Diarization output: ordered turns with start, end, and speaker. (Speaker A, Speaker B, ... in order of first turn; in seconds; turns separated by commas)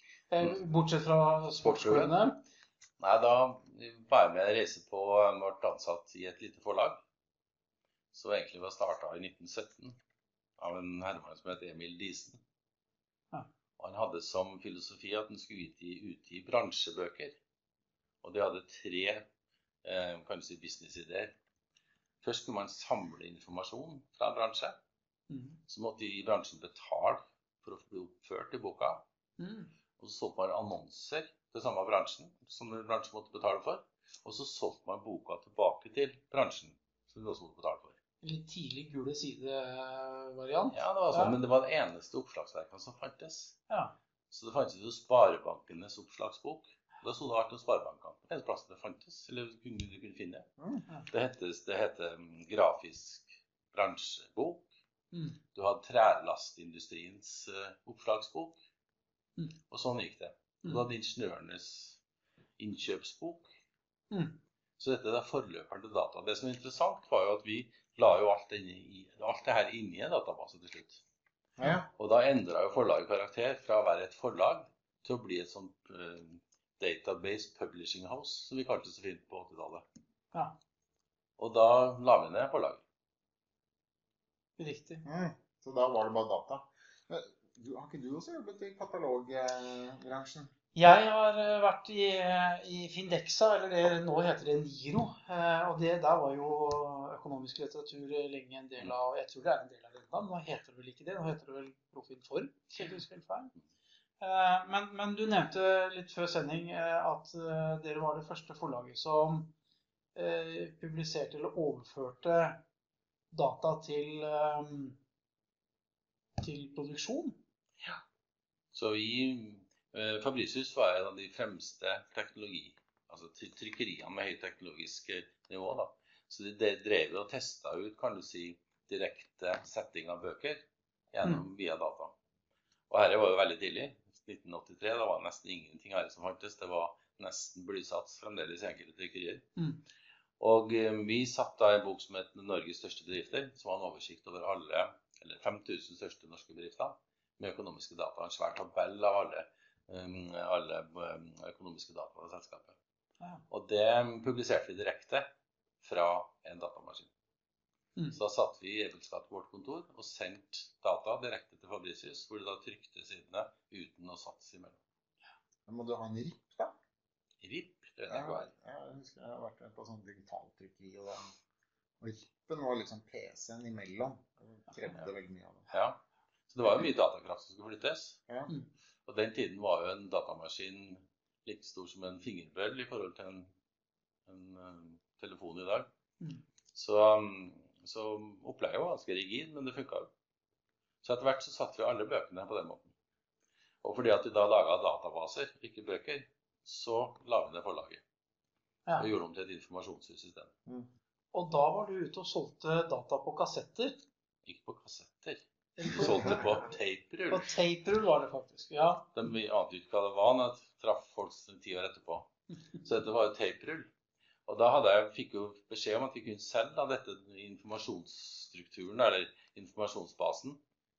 Speaker A: 0.3-2.4, Speaker B: 1.6-2.2, Speaker B: 3.0-7.0, Speaker B: 8.1-10.0, Speaker B: 10.6-12.4, Speaker B: 13.8-17.4, Speaker B: 18.2-19.3, Speaker B: 19.8-21.3, Speaker B: 22.2-24.8, Speaker A: 25.3-25.6, Speaker B: 25.7-29.0, Speaker A: 29.4-29.7, Speaker B: 30.0-38.0, Speaker A: 38.2-41.4, Speaker B: 40.7-43.6, Speaker A: 43.7-44.0, Speaker B: 44.3-50.5, Speaker C: 50.6-50.8, Speaker B: 51.1-54.7, Speaker A: 55.1-55.4, Speaker B: 55.5-58.6, Speaker B: 59.7-62.0, Speaker B: 62.6-63.5, Speaker A: 64.1-64.4, Speaker B: 64.8-71.0, Speaker C: 71.6-71.9, Speaker B: 72.0-79.8, Speaker B: 81.4-82.8, Speaker A: 84.6-85.0, Speaker C: 85.0-90.5, Speaker A: 90.7-103.5, Speaker A: 104.2-109.5, Speaker A: 110.1-112.6, Speaker A: 113.3-115.0, Speaker A: 116.4-117.4, Speaker B: 118.7-132.1, Speaker B: 132.9-139.5, Speaker B: 140.4-152.8, Speaker B: 153.5-155.3, Speaker B: 155.8-157.1, Speaker B: 158.1-164.8, Speaker C: 165.7-166.8, Speaker B: 167.4-168.5, Speaker C: 168.1-171.3, Speaker C: 172.0-175.6, Speaker B: 175.7-178.2, Speaker B: 179.1-183.5, Speaker B: 184.3-185.9, Speaker B: 186.7-190.1, Speaker B: 191.0-192.9, Speaker B: 193.8-198.0, Speaker B: 199.0-200.5, Speaker A: 201.3-204.0, Speaker B: 204.4-207.5, Speaker A: 205.8-206.6, Speaker A: 207.3-209.1, Speaker B: 209.1-212.3, Speaker B: 212.8-213.9, Speaker B: 214.5-220.6